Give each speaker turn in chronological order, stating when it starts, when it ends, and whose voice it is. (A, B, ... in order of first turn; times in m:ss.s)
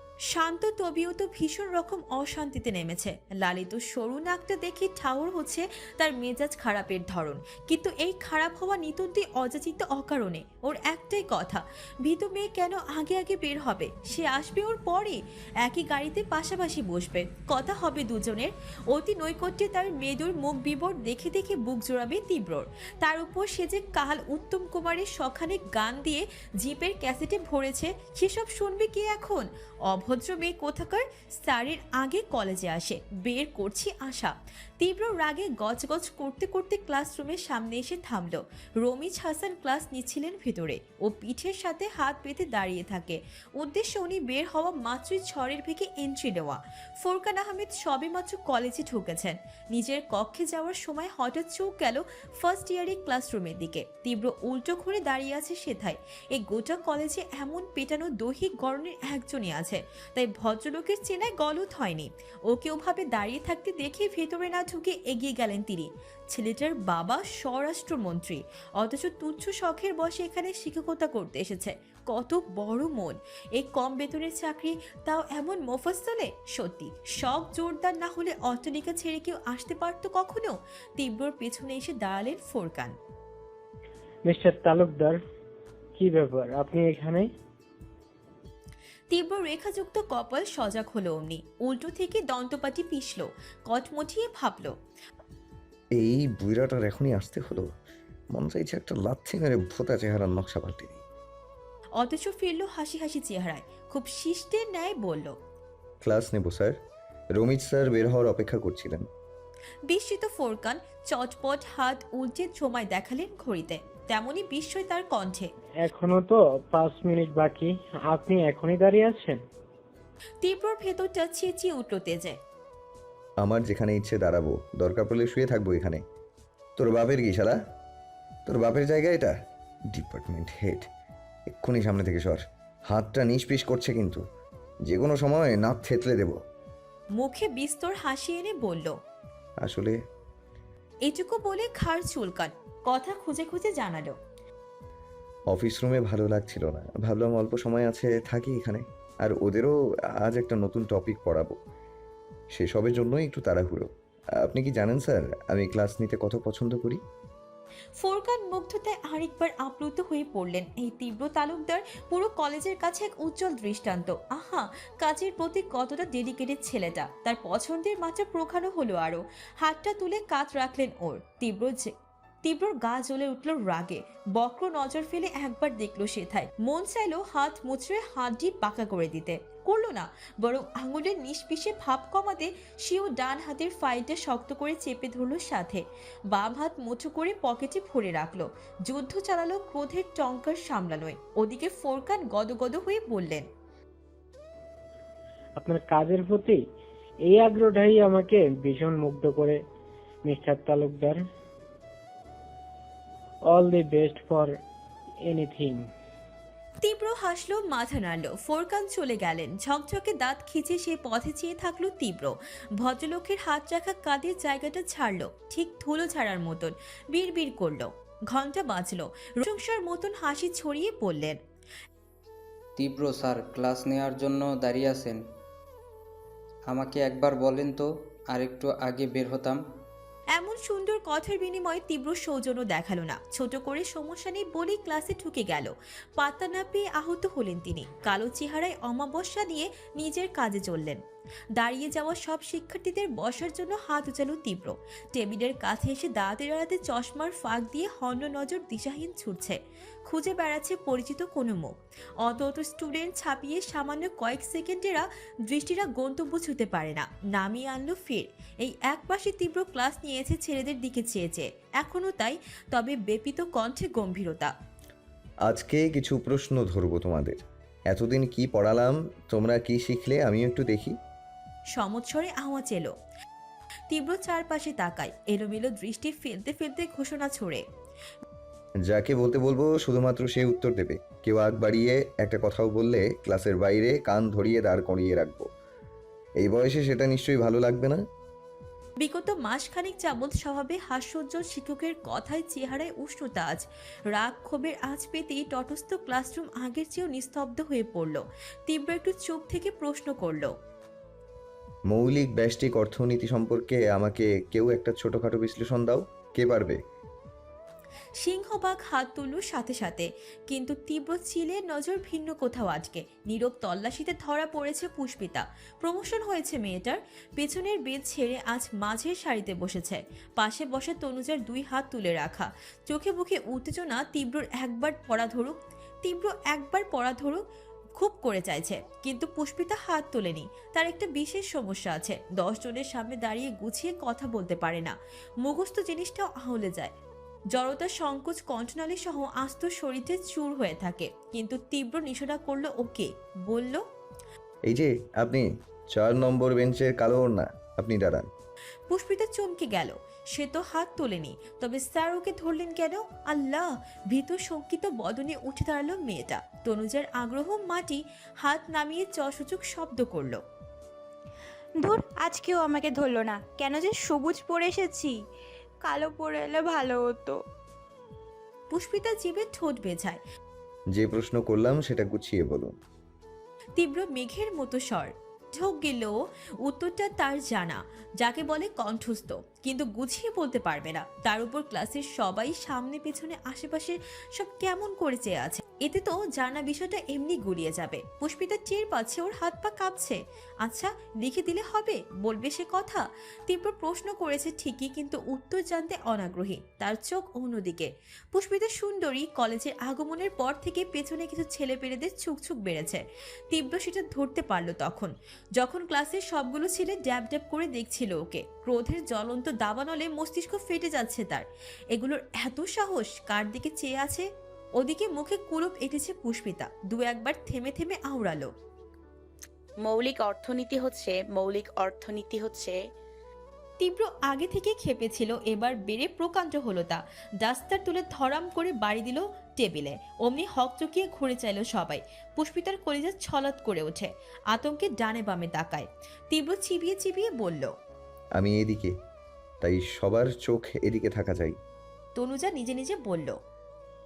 0:00.3-1:22.9 A
1:24.3-1:25.2 B
1:26.0-1:27.3 B
1:29.1-1:34.7 A
1:36.0-1:37.7 C
1:38.3-1:41.0 C
1:42.0-1:45.3 A
1:46.0-1:46.8 C
1:47.4-1:49.0 C
1:49.9-1:55.5 A
1:55.8-1:59.4 B
2:00.4-2:02.4 A
2:03.4-2:06.0 C
2:06.8-2:07.6 C
2:08.4-2:09.3 C
2:09.9-2:10.9 C
2:11.5-2:14.2 C
2:14.9-2:16.4 C
2:17.2-2:18.9 A
2:19.6-2:19.9 C
2:21.1-2:24.2 A
2:25.5-2:31.6 C
2:32.6-2:33.9 C
2:34.4-2:37.0 C
2:38.0-2:51.9 A
2:52.4-3:13.4 A
3:15.6-3:16.6 B
3:17.3-3:19.6 B
3:20.2-3:21.2 B
3:23.5-3:24.6 B
3:25.3-3:25.9 B
3:26.8-3:41.4 A
3:42.8-3:45.2 D
3:46.7-3:49.6 D
3:50.4-4:01.0 A
4:01.6-4:24.5 A
4:25.4-4:31.0 C
4:31.7-4:32.9 A
4:33.9-4:37.6 A
4:38.9-4:45.5 C
4:46.4-4:48.0 C
4:49.0-5:00.5 A
5:01.9-5:06.8 C
5:08.2-5:27.4 A
5:28.0-5:36.9 A
5:37.5-5:43.8 A
5:44.7-5:48.3 C
5:48.9-6:00.4 A
6:01.8-6:05.2 E
6:05.8-6:07.4 E
6:08.7-6:10.2 A
6:10.9-6:12.8 C
6:13.8-6:54.3 A
6:54.8-6:58.5 A
6:59.8-7:02.8 F
7:03.8-7:17.7 A
7:18.4-7:18.9 C
7:19.6-7:21.6 C
7:22.2-7:23.4 A